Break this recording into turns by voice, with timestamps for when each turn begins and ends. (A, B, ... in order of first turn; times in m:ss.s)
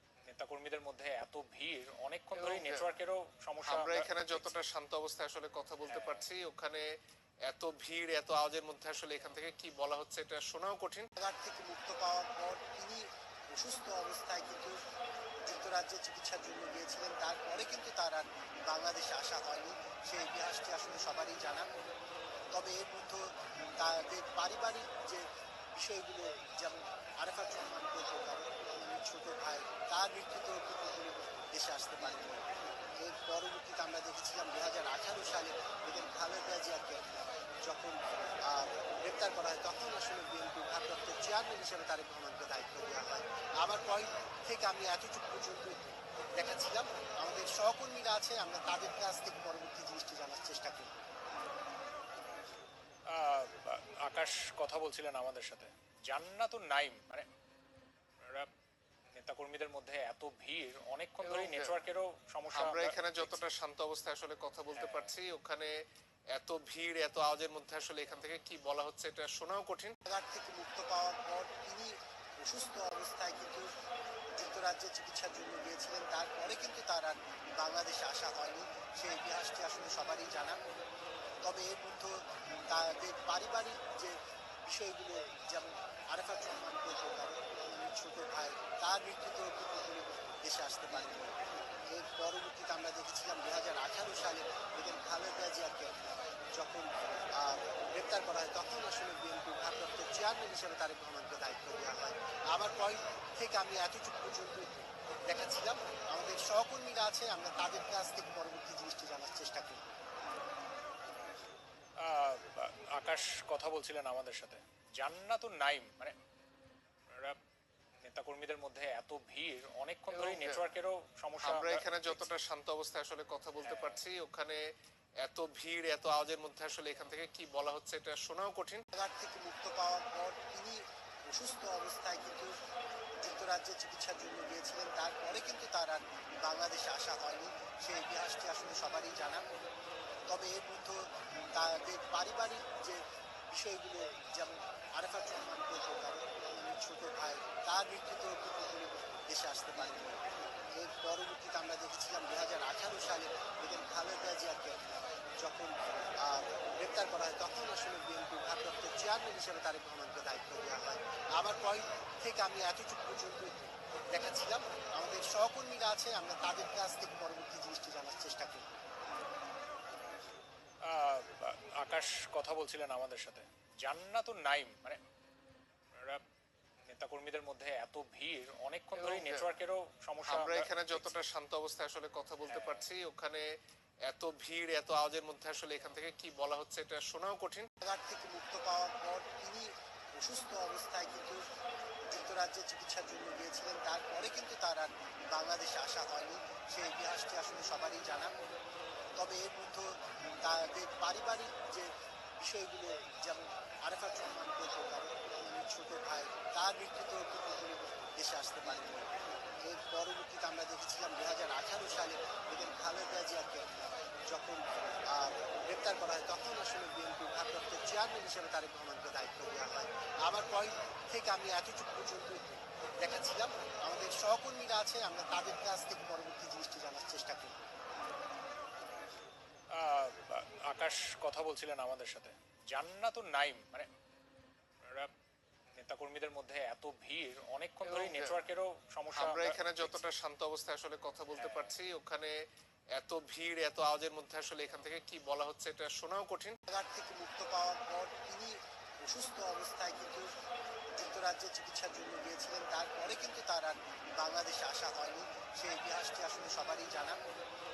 0:00.3-0:04.6 A
0:02.4-0:02.8 B
0:03.6-0:06.8 B
0:05.9-0:06.3 A
0:07.5-0:11.1 B
0:11.2-0:14.8 C
0:15.4-0:21.7 C
0:22.5-0:32.5 C
0:33.0-0:37.0 C
0:37.6-0:51.0 C
0:53.1-0:57.3 A
0:58.2-0:58.5 A
0:59.1-1:03.4 A
1:02.5-1:05.7 B
1:04.8-1:05.1 A
1:06.3-1:10.0 B
1:10.1-1:13.7 C
1:14.4-1:20.6 C
1:21.4-1:31.4 C
1:31.9-1:35.9 C
1:36.5-1:50.0 C
1:52.0-1:56.2 A
1:57.1-1:57.4 A
1:58.0-2:02.3 A
2:00.4-2:00.6 B
2:01.4-2:04.6 B
2:03.6-2:04.0 A
2:05.2-2:08.8 B
2:08.9-2:12.6 C
2:13.2-2:19.4 C
2:20.3-2:30.2 C
2:30.8-2:34.8 C
2:35.4-2:48.8 C
2:50.8-2:55.0 A
2:55.9-2:56.2 A
2:56.9-3:01.2 A
2:59.0-2:59.5 B
3:00.3-3:03.4 B
3:02.5-3:02.9 A
3:04.1-3:07.7 B
3:07.8-3:11.4 C
3:12.1-3:18.3 C
3:19.2-3:29.1 C
3:29.7-3:33.6 C
3:34.3-3:47.7 C
3:49.7-3:53.9 A
3:54.8-3:55.1 A
3:55.8-4:00.0 A
3:59.1-4:02.3 B
4:01.4-4:01.8 A
4:02.9-4:06.6 B
4:06.7-4:10.3 C
4:11.0-4:17.2 C